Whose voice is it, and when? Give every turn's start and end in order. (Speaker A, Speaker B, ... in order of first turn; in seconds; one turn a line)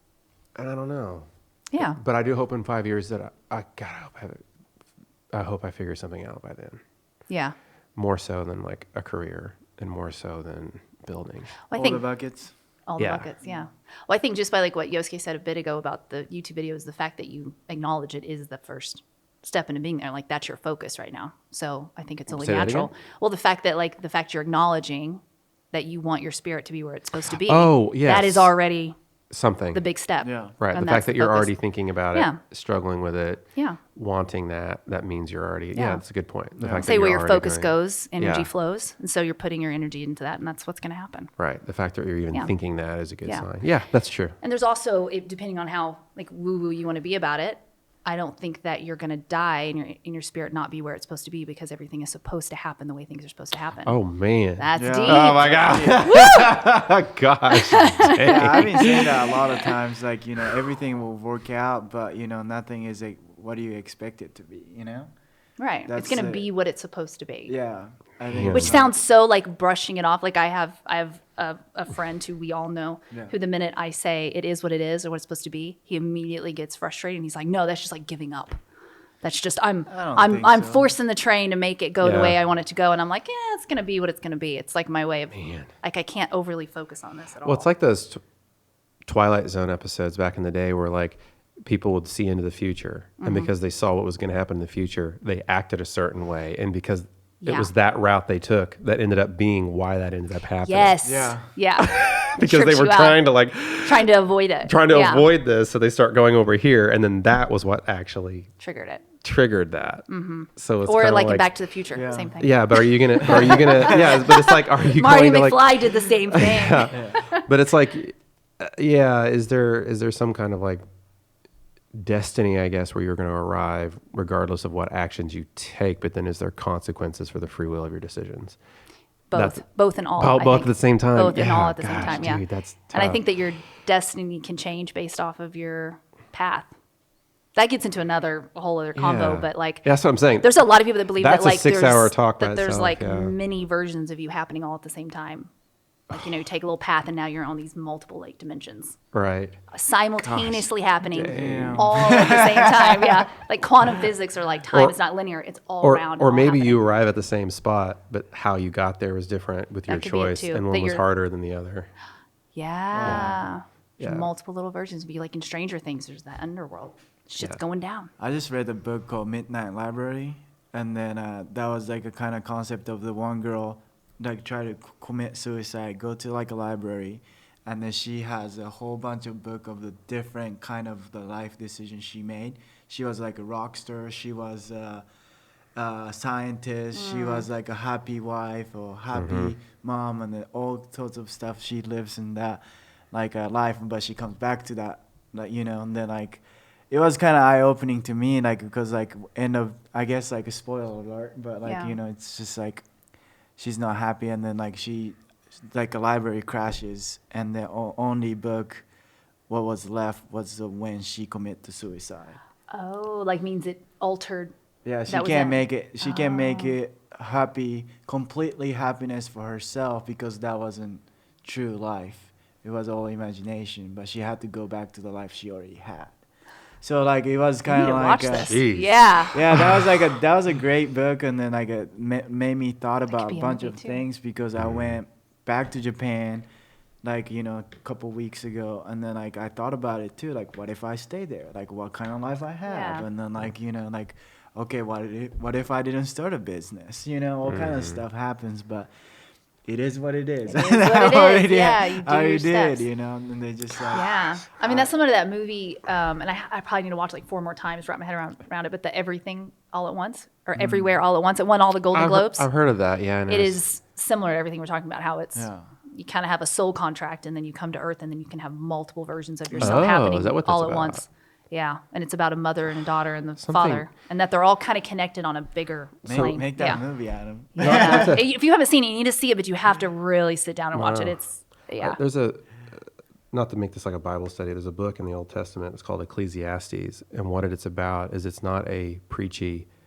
Speaker A: 0.6-1.2
Speaker B: 1.7-2.0
Speaker A: 1.8-4.4
Speaker A: 5.3-6.8
Speaker B: 7.3-7.5
Speaker A: 8.0-11.6
Speaker B: 11.7-12.1
Speaker C: 11.7-12.5
Speaker B: 12.9-25.2
Speaker A: 13.0-13.3
Speaker C: 13.4-13.7
Speaker A: 22.3-22.9
Speaker B: 25.7-28.9
Speaker A: 27.4-28.5
Speaker A: 29.3-29.8
Speaker B: 29.7-32.4
Speaker C: 30.2-30.6
Speaker A: 30.6-38.5
Speaker B: 35.7-36.0
Speaker C: 36.6-36.9
Speaker B: 36.8-41.3
Speaker A: 41.4-44.4
Speaker B: 43.0-43.5
Speaker B: 44.4-54.0
Speaker A: 53.8-59.3
Speaker B: 54.5-56.5
Speaker C: 54.8-56.1
Speaker B: 57.5-59.2
Speaker C: 58.2-65.1
Speaker B: 65.6-67.5
Speaker C: 65.9-66.5
Speaker C: 67.5-69.0
Speaker A: 68.3-68.7
Speaker B: 68.5-78.6
Speaker B: 79.2-87.7
Speaker C: 79.9-80.9
Speaker A: 82.0-82.4
Speaker A: 85.3-85.7
Speaker A: 87.4-88.2
Speaker A: 89.0-101.0
Speaker B: 93.2-93.5
Speaker B: 97.4-97.7
Speaker B: 100.6-103.2
Speaker C: 101.0-101.5
Speaker A: 101.8-104.0
Speaker B: 103.8-105.3
Speaker A: 104.6-108.5
Speaker B: 108.6-109.1
Speaker A: 109.2-110.0
Speaker B: 110.1-117.4
Speaker A: 110.5-111.5
Speaker C: 111.9-112.3
Speaker A: 112.4-120.8
Speaker C: 113.2-113.8
Speaker C: 116.9-117.2
Speaker A: 121.9-128.6
Speaker B: 129.3-136.7
Speaker A: 129.3-129.6
Speaker A: 130.2-133.2
Speaker B: 137.5-145.5
Speaker A: 138.9-140.5
Speaker A: 141.2-143.3
Speaker B: 146.1-149.0
Speaker A: 149.1-149.6
Speaker B: 149.7-156.9
Speaker A: 150.2-152.1
Speaker C: 151.3-153.2
Speaker A: 155.8-161.9
Speaker B: 159.9-161.0
Speaker B: 162.5-168.1
Speaker C: 162.9-163.4
Speaker A: 163.0-163.3
Speaker A: 164.0-164.3
Speaker C: 168.2-185.1
Speaker C: 185.8-202.8
Speaker B: 186.9-187.5
Speaker A: 189.1-189.5
Speaker B: 201.6-201.9
Speaker C: 203.6-208.8
Speaker C: 209.5-212.4
Speaker B: 212.7-214.5
Speaker C: 214.8-226.2
Speaker B: 215.1-216.8
Speaker C: 226.8-228.6
Speaker B: 227.7-229.4
Speaker A: 228.4-229.7
Speaker C: 229.3-236.4
Speaker B: 233.1-234.0
Speaker C: 237.0-248.9
Speaker B: 242.7-243.1
Speaker A: 247.4-248.0
Speaker C: 249.7-254.9
Speaker B: 250.5-252.9
Speaker B: 253.9-262.5
Speaker C: 260.5-260.9
Speaker A: 261.9-263.6
Speaker B: 263.3-276.8
Speaker C: 265.3-265.7
Speaker C: 269.5-269.8
Speaker A: 269.6-271.0
Speaker A: 273.4-273.9
Speaker C: 276.0-278.2
Speaker B: 277.6-282.0
Speaker A: 277.6-278.2
Speaker A: 280.7-281.2
Speaker A: 281.8-289.7